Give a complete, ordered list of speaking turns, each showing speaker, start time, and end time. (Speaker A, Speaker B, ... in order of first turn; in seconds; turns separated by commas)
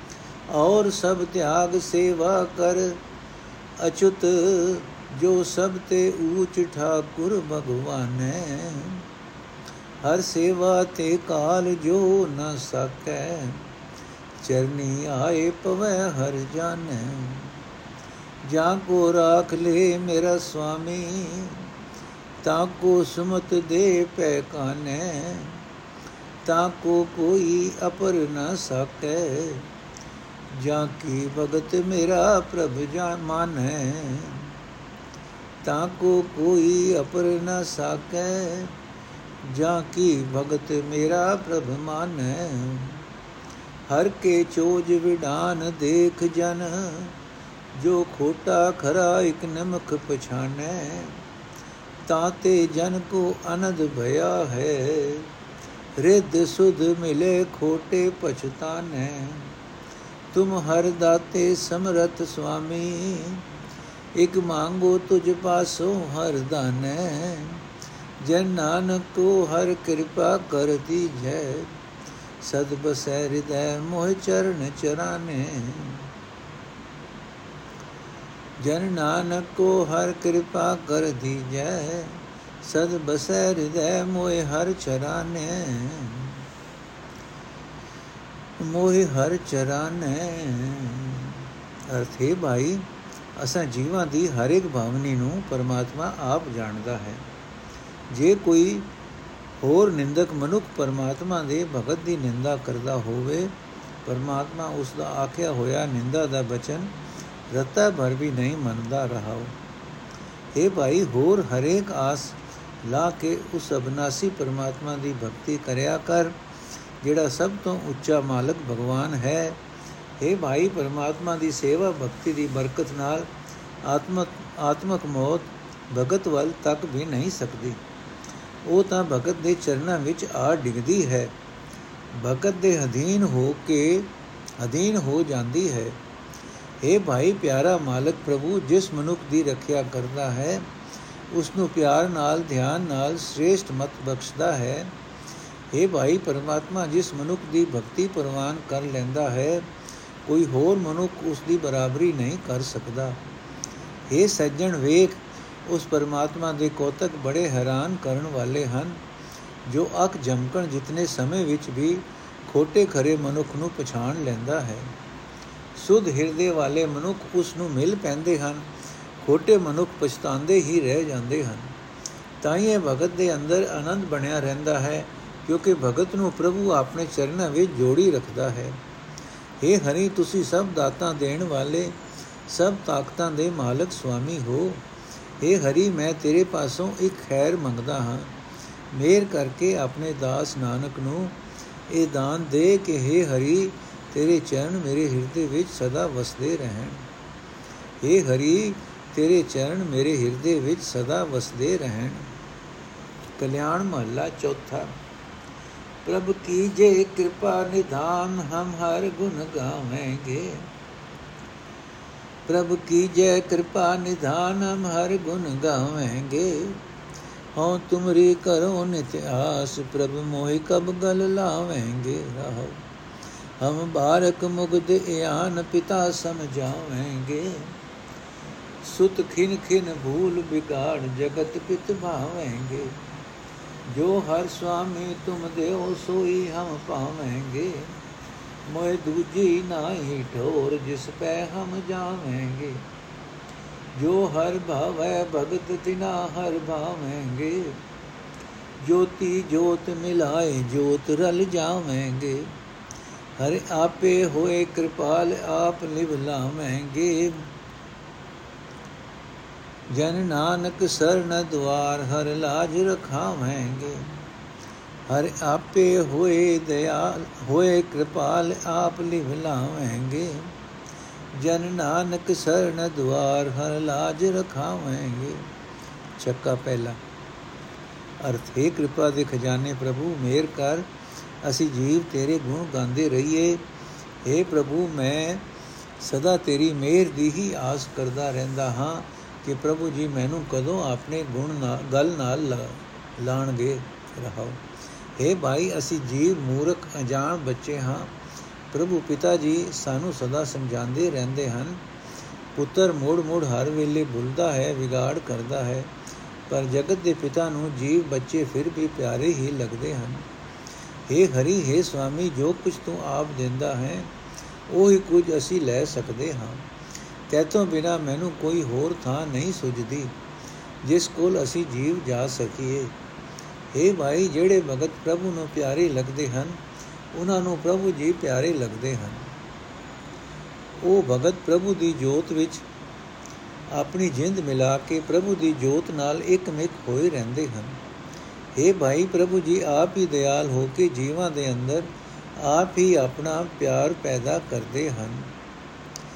Speaker A: 0.5-3.0, Speaker A: 3.8-9.1, Speaker A: 10.0-13.6, Speaker A: 14.4-17.6, Speaker A: 18.4-21.7, Speaker A: 22.4-25.6, Speaker A: 26.4-29.7, Speaker A: 30.5-34.5, Speaker A: 35.6-38.7, Speaker A: 39.4-43.0, Speaker A: 43.9-47.1, Speaker A: 47.8-51.2, Speaker A: 52.1-55.3, Speaker A: 56.0-59.5, Speaker A: 60.3-63.4, Speaker A: 64.2-67.6, Speaker A: 68.2-71.7, Speaker A: 72.4-76.1, Speaker A: 78.6-86.4, Speaker A: 88.6-97.2, Speaker A: 98.1-98.9, Speaker A: 99.6-103.5, Speaker A: 104.0-106.9, Speaker A: 107.5-109.5, Speaker A: 110.5-116.4, Speaker A: 117.0-119.6, Speaker A: 120.2-123.3, Speaker A: 123.8-127.8, Speaker A: 128.7-131.3, Speaker A: 132.2-136.0, Speaker A: 136.8-140.7, Speaker A: 141.3-144.9, Speaker A: 145.7-149.7, Speaker A: 150.2-153.2, Speaker A: 154.1-159.0, Speaker A: 159.7-164.9, Speaker A: 165.8-168.7, Speaker A: 169.2-171.7, Speaker A: 172.4-178.8, Speaker A: 179.6-182.0, Speaker A: 182.5-184.8, Speaker A: 185.4-188.3, Speaker A: 188.9-191.4, Speaker A: 191.9-197.1, Speaker A: 198.0-202.3, Speaker A: 203.4-204.9, Speaker A: 206.1-210.7, Speaker A: 212.5-216.8, Speaker A: 217.6-222.8, Speaker A: 223.6-227.7, Speaker A: 228.8-232.9, Speaker A: 233.9-237.9, Speaker A: 238.7-242.8, Speaker A: 243.9-247.8, Speaker A: 248.8-252.5, Speaker A: 253.4-257.4, Speaker A: 259.9-264.1, Speaker A: 265.1-270.5, Speaker A: 271.4-275.5, Speaker A: 276.2-277.0, Speaker A: 278.2-280.9, Speaker A: 281.4-283.6, Speaker A: 284.2-285.4, Speaker A: 286.0-294.6, Speaker A: 295.2-298.1, Speaker A: 298.7-301.8, Speaker A: 302.6-305.9, Speaker A: 306.5-310.3, Speaker A: 311.1-314.1, Speaker A: 314.7-316.7, Speaker A: 317.3-320.1, Speaker A: 320.8-322.9, Speaker A: 323.8-326.6, Speaker A: 327.1-329.2, Speaker A: 330.8-332.6, Speaker A: 333.7-337.8, Speaker A: 338.6-345.3